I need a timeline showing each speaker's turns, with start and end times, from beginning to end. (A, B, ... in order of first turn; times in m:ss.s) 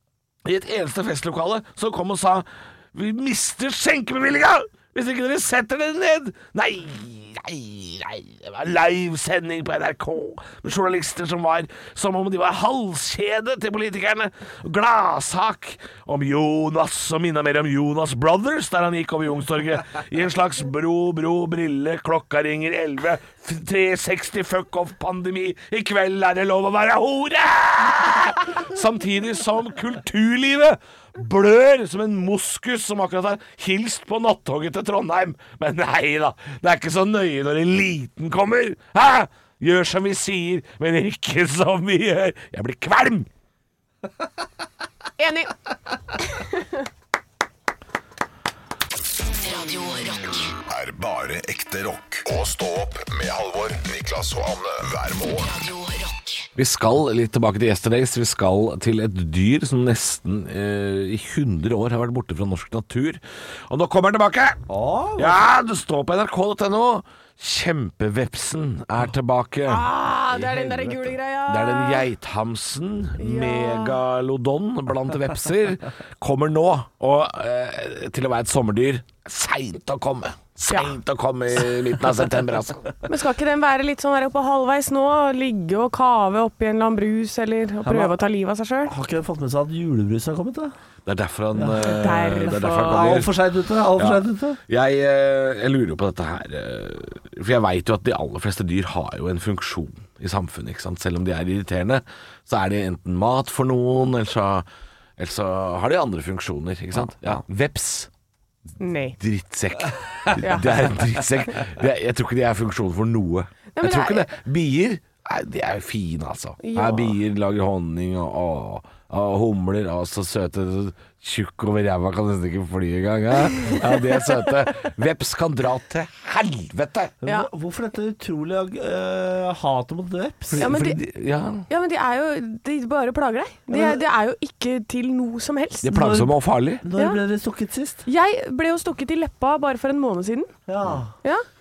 0:00.4-0:43.3 A
0:45.2-0:45.5 B
0:46.4-0:46.7 B
0:49.2-0:50.5 C
0:50.7-0:55.5 D
0:55.4-0:56.5 C
0:56.6-1:04.6 A
1:04.7-1:05.4 E
1:05.2-1:23.0 A
1:09.7-1:12.1 B
1:13.2-1:14.0 B
1:20.7-1:21.0 B
1:23.1-1:28.9 B
1:27.8-1:28.2 E
1:28.9-1:30.7 E
1:31.1-1:33.4 A
1:31.6-1:31.9 E
1:31.8-1:33.2 B
1:32.8-1:34.6 E
1:33.9-1:44.7 A
1:45.2-1:48.1 A
1:48.8-1:49.2 B
1:49.2-2:07.1 A
1:50.4-1:50.6 B
1:53.8-1:54.3 B
1:56.6-1:57.2 B
2:07.2-2:10.8 E
2:10.5-2:11.7 A
2:10.6-2:11.0 B
2:11.7-2:15.9 B
2:13.7-2:14.0 E
2:15.8-2:16.9 A
2:15.9-2:18.0 E
2:18.1-2:20.5 B
2:20.7-2:21.1 E